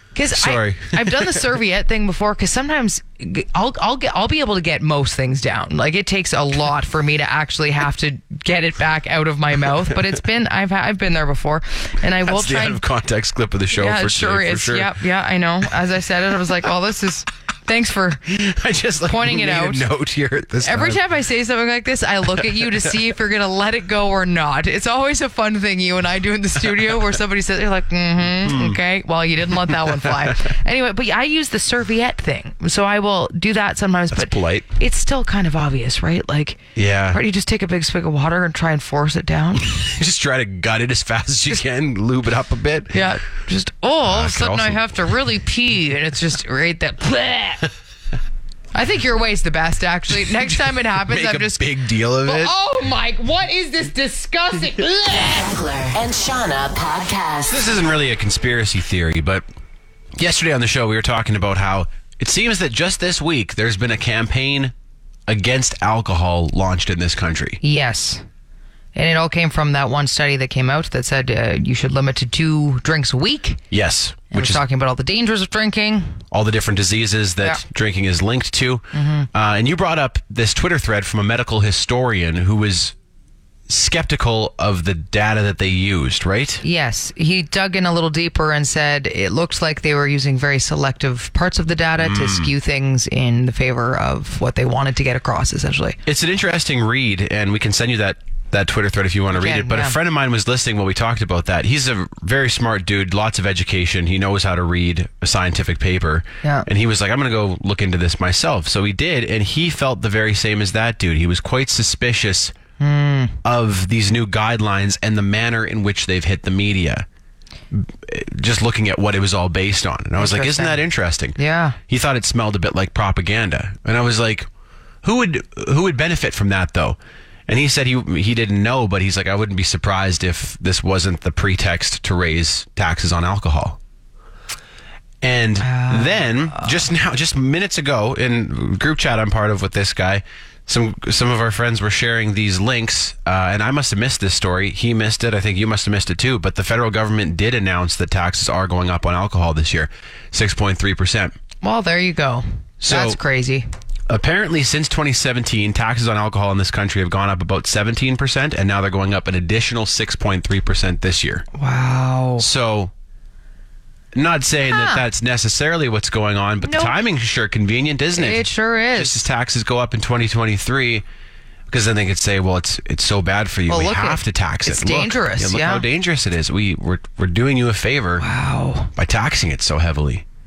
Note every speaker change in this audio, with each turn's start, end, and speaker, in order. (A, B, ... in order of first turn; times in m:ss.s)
0:00.1-0:12.8 A
0:00.3-0:01.5 B
0:12.2-0:14.9 B
0:13.7-0:18.2 A
0:18.3-0:21.0 B
0:19.1-0:19.8 A
0:20.6-0:39.8 A
0:22.4-0:22.9 B
0:28.4-0:28.8 B
0:29.7-0:30.4 B
0:34.1-0:34.7 B
0:36.7-0:37.2 B
0:39.6-0:43.1 B
0:42.9-0:47.6 A
0:44.1-0:45.0 B
0:48.7-0:51.6 A
0:50.2-0:52.5 B
0:52.2-0:55.4 A
0:55.1-0:57.6 C
0:57.5-0:59.4 B
1:00.2-1:04.7 B
1:05.3-1:07.6 B
1:07.6-1:08.2 A
1:08.9-1:13.6 A
1:13.7-1:14.6 B
1:14.3-1:16.2 A
1:16.3-1:22.9 B
1:18.9-1:19.3 A
1:23.7-1:26.6 B
1:26.6-1:36.0 A
1:32.0-1:32.5 B
1:36.0-1:52.5 B
1:39.3-1:40.0 A
1:52.8-1:53.4 A
1:53.4-1:57.0 B
1:57.7-2:01.4 B
2:00.2-2:00.8 A
2:01.4-2:01.8 A
2:01.9-2:04.5 B
2:05.0-2:13.8 B
2:15.2-2:31.3 B
2:15.6-2:16.9 A
2:31.6-2:33.6 A
2:32.8-2:33.2 B
2:34.1-2:41.4 B
2:41.5-2:42.4 A
2:42.4-2:42.9 B
2:44.1-2:51.0 B
2:44.7-2:45.0 A
2:46.6-2:46.9 A
2:48.2-2:49.2 A
2:51.7-2:58.2 B
2:53.7-2:55.8 A
2:58.2-2:58.9 A
2:59.0-3:00.2 B